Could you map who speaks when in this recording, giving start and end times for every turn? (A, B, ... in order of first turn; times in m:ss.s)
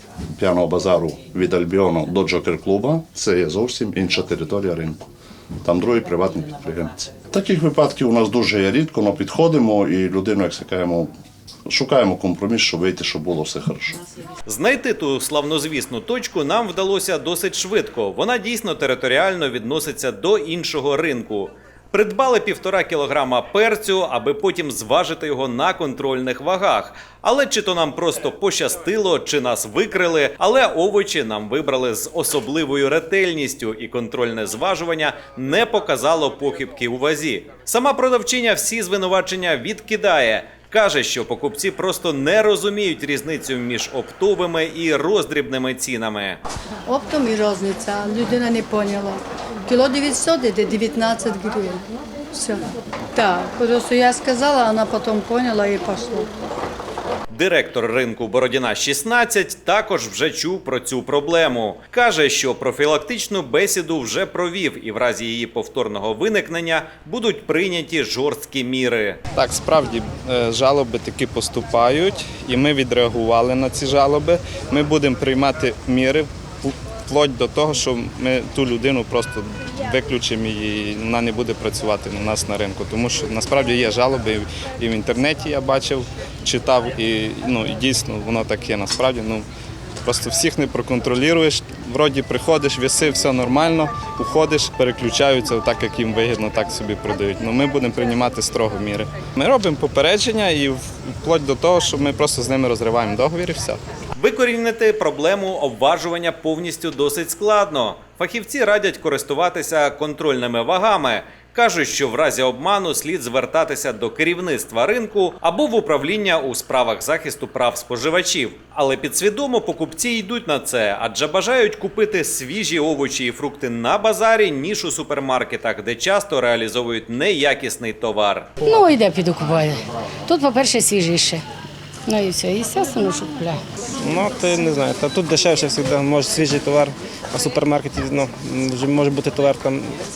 0:00.4-0:05.1 A
0:05.6-0:11.1 A
0:11.7-0:14.0 A
0:14.5-0:46.4 B
0:46.9-0:51.8 C
0:52.3-0:52.6 C
0:53.1-0:56.3 C
0:57.3-1:09.2 B
1:09.4-1:29.4 D
1:30.0-1:43.8 D
1:44.2-2:08.5 B
2:08.7-2:11.4 E
2:12.1-2:13.6 E
2:14.0-2:20.0 F